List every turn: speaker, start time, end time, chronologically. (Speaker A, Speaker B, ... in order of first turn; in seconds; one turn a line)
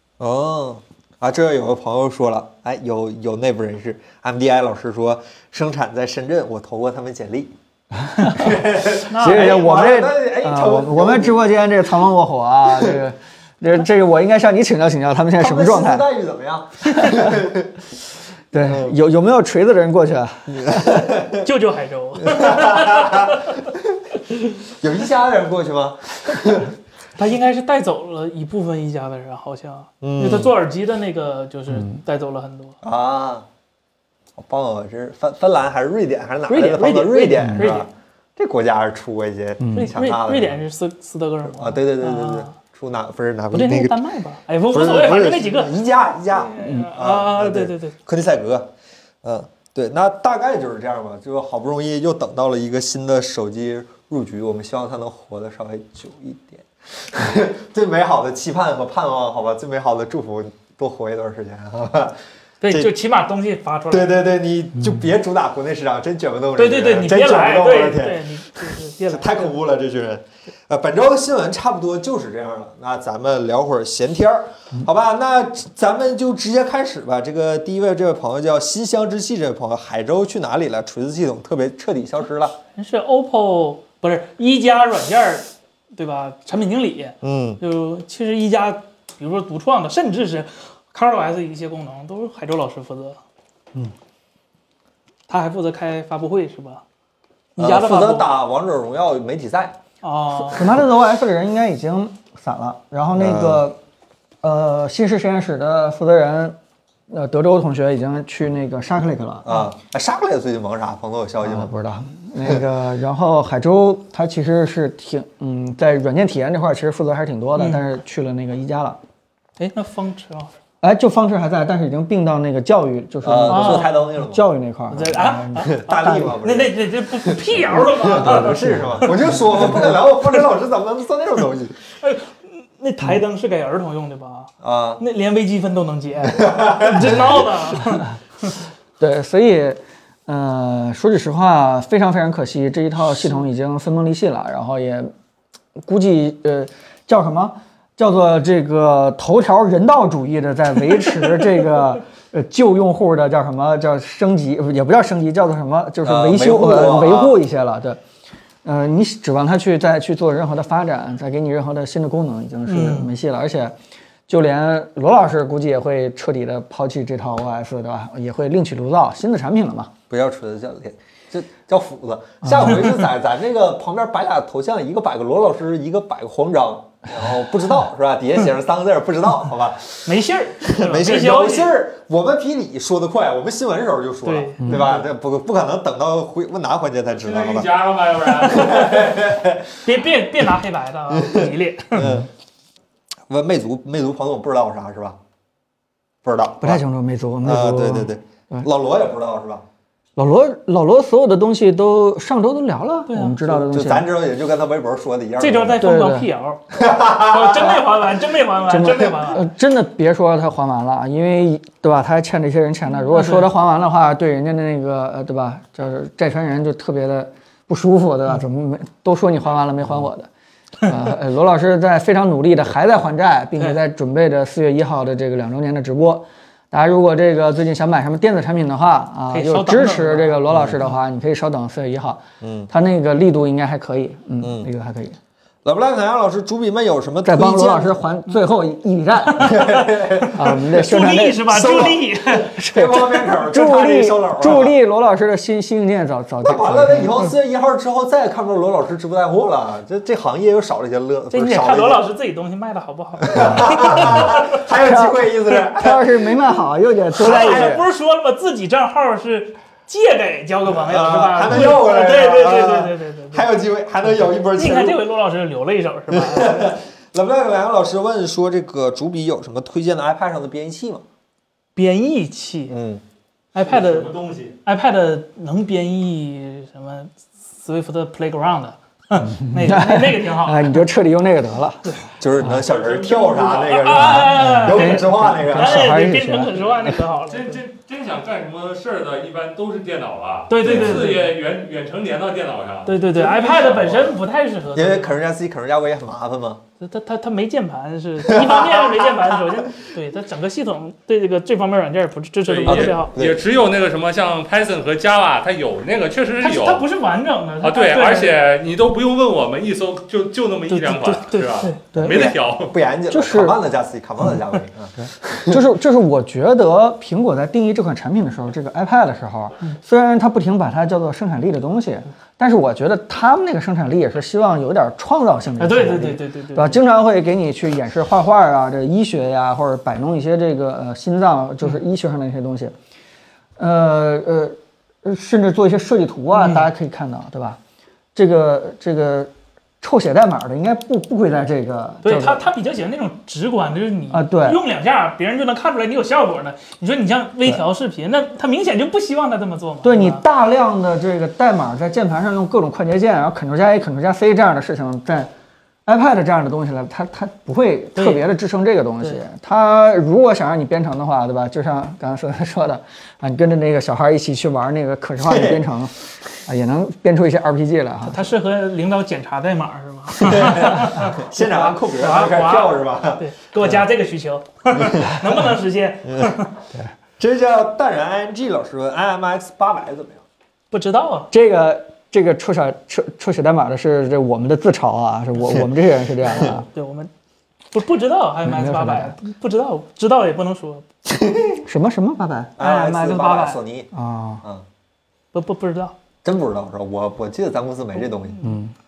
Speaker A: 0.2-7.5
Speaker B: 8.1-16.1
Speaker A: 8.3-11.4
Speaker C: 9.1-9.7
Speaker A: 15.4-17.7
Speaker B: 17.0-17.4
Speaker B: 18.5-21.2
Speaker A: 18.6-18.9
Speaker A: 20.6-21.4
Speaker C: 21.4-23.6
Speaker A: 22.3-23.4
Speaker A: 24.8-26.7
Speaker C: 27.2-32.8
Speaker A: 30.0-30.5
Speaker A: 32.8-33.5
Speaker A: 34.4-40.6
Speaker C: 36.5-37.9
Speaker B: 37.4-37.7
Speaker B: 39.6-39.9
Speaker C: 39.7-42.5
Speaker A: 41.5-44.0
Speaker C: 43.5-48.0
Speaker A: 44.7-48.7
Speaker A: 49.2-62.2
Speaker C: 62.6-64.2
Speaker A: 63.9-68.2
Speaker B: 64.8-65.0
Speaker C: 66.6-69.5
Speaker A: 69.1-82.6
Speaker C: 82.8-93.2
Speaker A: 87.2-87.6
Speaker C: 95.3-96.8
Speaker C: 97.6-98.4
Speaker A: 97.6-99.8
Speaker C: 100.0-100.7
Speaker B: 100.4-103.8
Speaker A: 103.2-103.6
Speaker B: 104.4-106.6
Speaker B: 107.1-109.6
Speaker A: 109.5-111.7
Speaker B: 111.4-119.0
Speaker C: 117.6-117.9
Speaker C: 119.6-120.5
Speaker B: 120.8-126.4
Speaker A: 123.2-124.5
Speaker C: 123.5-124.1
Speaker C: 124.9-129.1
Speaker A: 125.7-131.8
Speaker B: 127.7-129.7
Speaker C: 132.0-138.5
Speaker A: 134.6-135.0
Speaker A: 136.4-137.3
Speaker B: 139.0-145.1
Speaker B: 145.8-158.0
Speaker A: 156.0-157.4
Speaker B: 158.6-163.8
Speaker C: 162.7-163.1
Speaker B: 164.3-169.9
Speaker A: 170.1-187.7
Speaker B: 172.4-172.9
Speaker C: 180.1-181.8
Speaker C: 184.2-185.0
Speaker B: 184.6-184.9
Speaker D: 187.1-189.2
Speaker A: 188.4-189.8
Speaker C: 189.8-192.1
Speaker A: 191.2-192.3
Speaker B: 192.0-192.3
Speaker A: 193.3-195.2
Speaker A: 196.2-196.8
Speaker B: 196.6-198.7
Speaker A: 197.4-199.6
Speaker B: 200.2-204.1
Speaker C: 203.1-203.4
Speaker A: 203.4-205.8
Speaker C: 205.4-209.5
Speaker B: 205.8-206.3
Speaker A: 206.7-207.8
Speaker B: 208.7-220.3
Speaker C: 213.1-213.5
Speaker B: 220.8-235.2
Speaker C: 229.3-230.4
Speaker A: 230.5-230.8
Speaker A: 232.4-232.7
Speaker A: 234.4-234.7
Speaker A: 235.7-238.0
Speaker B: 237.2-239.6
Speaker C: 239.3-242.5
Speaker A: 239.4-240.4
Speaker B: 240.3-241.9
Speaker A: 241.5-244.8
Speaker B: 242.5-247.2
Speaker A: 246.4-252.0
Speaker C: 251.3-254.4
Speaker A: 253.2-256.2
Speaker B: 253.5-254.2
Speaker B: 254.8-257.9
Speaker A: 257.2-257.8
Speaker C: 257.2-263.5
Speaker A: 260.7-265.0
Speaker C: 264.1-266.8
Speaker A: 266.1-271.0
Speaker C: 271.8-272.7
Speaker A: 272.7-273.0
Speaker C: 273.5-274.1
Speaker D: 273.6-274.6
Speaker C: 274.6-280.8
Speaker B: 279.4-281.8
Speaker A: 282.2-285.9
Speaker D: 282.4-284.2
Speaker C: 283.7-287.6
Speaker B: 284.1-286.9
Speaker D: 287.3-294.1
Speaker C: 290.5-291.4
Speaker A: 290.6-291.0
Speaker C: 292.9-295.2
Speaker A: 294.8-296.6
Speaker C: 296.8-303.1
Speaker A: 298.3-299.3
Speaker D: 302.5-306.9
Speaker A: 302.7-303.4
Speaker C: 306.4-308.4
Speaker D: 307.6-312.8
Speaker C: 310.7-311.8
Speaker B: 311.9-312.3
Speaker A: 312.1-315.6
Speaker B: 313.1-313.6
Speaker B: 315.5-332.7
Speaker C: 325.6-326.8
Speaker B: 333.6-337.6
Speaker C: 336.3-336.7
Speaker B: 338.1-342.4
Speaker C: 342.0-350.2
Speaker B: 344.1-344.6
Speaker B: 349.8-355.3
Speaker B: 355.9-365.9
Speaker C: 357.9-358.2
Speaker A: 365.2-365.6
Speaker B: 366.5-368.2
Speaker C: 368.1-376.6
Speaker A: 370.2-373.8
Speaker A: 377.2-380.2
Speaker C: 380.7-381.3
Speaker B: 381.3-386.7
Speaker C: 386.4-387.1
Speaker C: 387.7-390.9
Speaker B: 388.4-389.2
Speaker A: 391.1-391.6
Speaker B: 391.6-392.6
Speaker A: 392.6-393.9
Speaker C: 392.6-393.6
Speaker B: 393.9-394.4
Speaker C: 395.3-396.0
Speaker A: 396.2-398.5
Speaker C: 398.3-398.6
Speaker B: 398.4-398.7